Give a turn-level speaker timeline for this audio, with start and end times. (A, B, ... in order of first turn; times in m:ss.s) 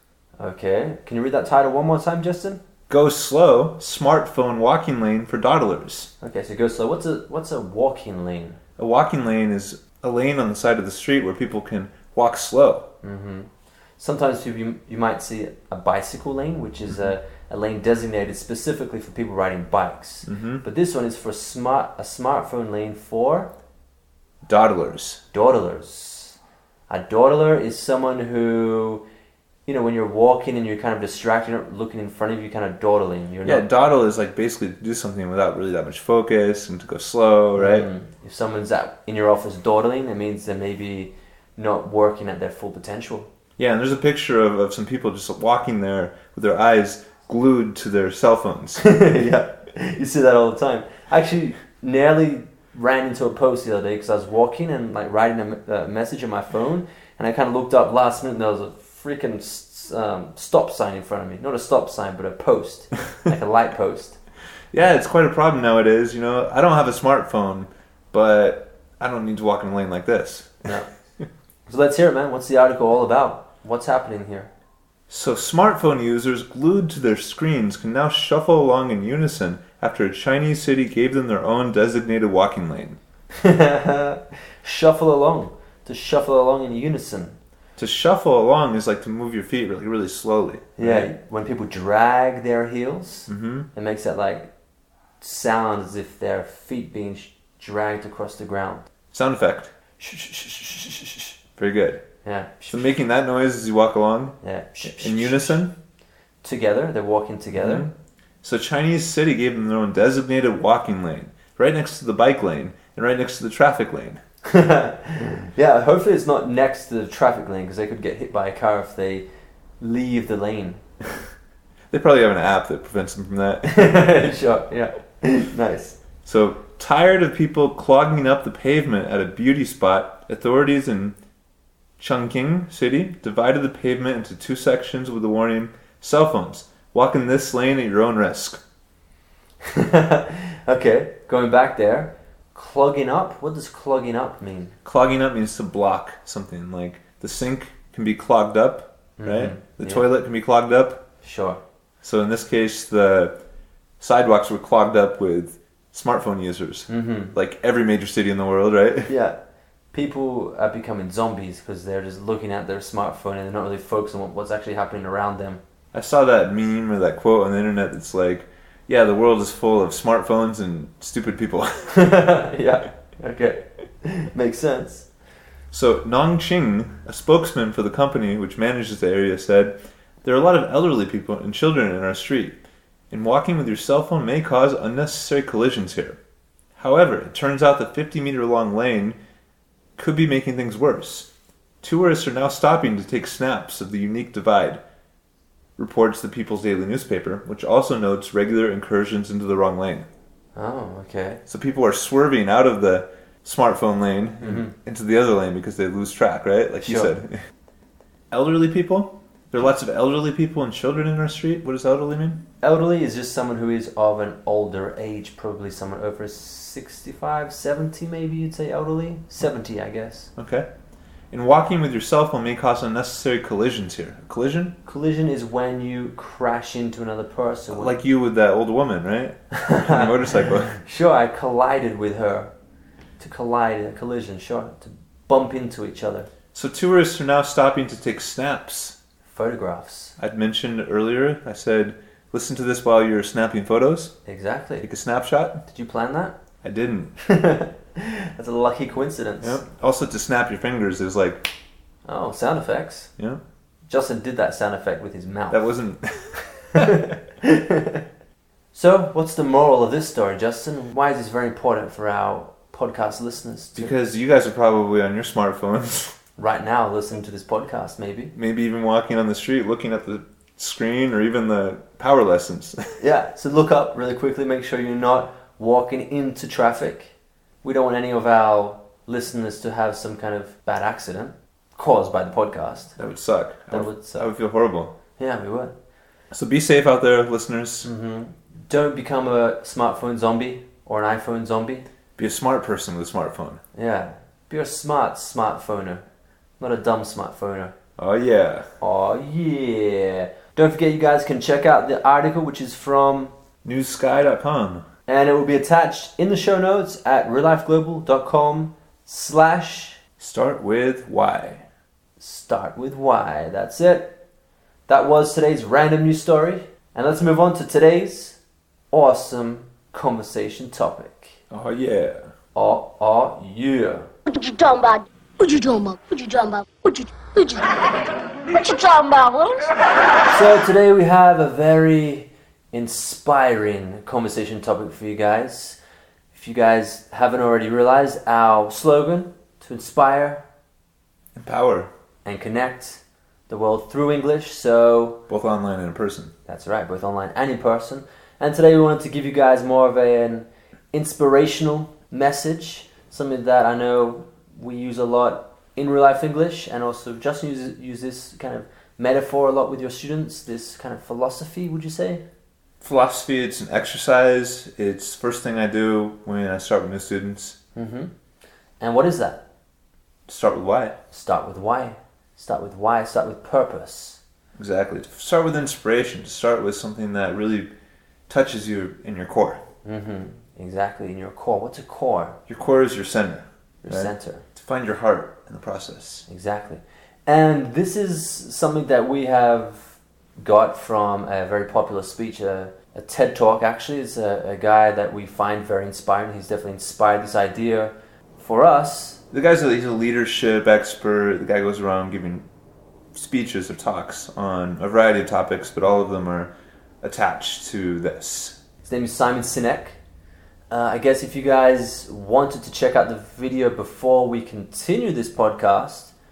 0:00.4-0:02.6 A
0:02.9-0:06.1 B
0:06.2-0:08.6 A
0:08.8-0:12.9 B
0:13.0-0:23.5 A
0:20.2-0:20.6 B
0:24.4-0:25.2 B
0:25.3-0:26.4 A
0:26.9-0:29.0 A
0:29.6-0:33.6 A
0:33.4-0:37.9 B
0:37.6-0:43.3 A
0:43.6-0:49.0 B
0:48.8-1:04.2 A
1:04.7-1:10.7 B
1:11.7-1:14.5 A
1:15.1-1:23.0 B
1:23.4-1:27.4 A
1:27.8-1:31.1 B
1:30.8-1:34.5 A
1:33.3-1:33.7 B
1:35.2-1:38.9 A
1:39.1-1:39.7 B
1:40.0-1:41.4 A
1:41.6-1:42.0 B
1:42.2-1:42.9 A
1:42.7-1:45.7 B
1:44.4-1:45.6 A
1:46.4-1:47.9 A
1:47.6-1:54.2 B
1:54.4-1:59.3 A
1:59.8-2:00.8 A
2:01.9-2:04.2 B
2:03.7-2:06.0 A
2:06.2-2:11.2 B
2:12.0-2:18.6 B
2:19.6-2:24.8 A
2:24.8-2:31.0 B
2:29.2-2:30.0 A
2:31.2-2:31.6 A
2:32.0-2:33.4 B
2:34.0-2:39.1 B
2:36.9-2:37.3 A
2:39.1-2:39.4 A
2:39.9-2:45.6 A
2:45.9-2:52.1 B
2:51.9-2:55.1 A
2:55.7-3:06.2 B
3:06.8-3:09.2 B
3:10.0-3:11.3 B
3:11.8-3:14.8 B
3:15.8-3:20.1 B
3:20.6-3:21.4 A
3:21.5-3:27.4 B
3:24.4-3:24.7 A
3:26.8-3:27.1 A
3:28.3-3:32.5 B
3:32.6-3:40.3 A
3:40.4-3:40.7 B
3:41.3-3:44.8 B
3:44.8-3:47.9 A
3:47.7-3:50.8 B
3:49.6-3:50.1 A
3:50.8-3:52.5 A
3:53.2-3:56.3 A
3:56.5-3:59.0 B
3:59.3-4:00.1 A
4:00.2-4:04.2 B
4:04.2-4:04.9 A
4:04.8-4:05.6 B
4:05.6-4:06.4 A
4:06.6-4:07.2 B
4:07.2-4:09.6 A
4:09.4-4:11.5 B
4:12.0-4:13.1 A
4:13.9-4:15.6 A
4:15.5-4:16.9 B
4:16.8-4:18.0 A
4:18.7-4:23.9 A
4:23.8-4:26.2 B
4:26.4-4:28.3 A
4:28.3-4:33.0 B
4:33.0-4:43.0 A
4:43.0-4:44.9 B
4:43.7-4:44.3 A
4:45.2-4:45.7 A
4:46.3-4:47.9 B
4:47.8-4:51.8 A
4:52.2-4:53.6 B
4:53.7-4:56.0 A
4:56.6-4:57.7 A
4:58.0-4:58.7 B
4:58.8-5:03.3 A
5:03.6-5:04.9 B
5:05.1-5:10.0 A
5:10.2-5:11.6 B
5:12.2-5:14.2 A
5:14.9-5:18.4 A
5:18.9-5:21.4 A
5:21.5-5:22.3 B
5:22.5-5:24.1 A
5:24.3-5:27.6 C
5:28.5-5:29.5 C
5:30.3-5:35.8 A
5:36.3-5:40.4 A
5:41.3-5:41.9 B
5:42.2-5:45.2 A
5:45.3-5:46.3 B
5:46.4-6:02.2 A
6:02.8-6:07.6 B
6:07.7-6:08.1 A
6:08.8-6:09.4 A
6:10.3-6:11.0 B
6:11.1-6:14.2 A
6:14.6-6:17.7 B
6:18.3-6:19.6 B
6:19.8-6:22.4 A
6:22.5-6:26.2 B
6:23.8-6:24.4 A
6:26.3-6:39.2 A
6:39.3-6:42.5 B
6:43.1-6:48.6 B
6:48.8-6:50.0 A
6:50.7-6:56.1 A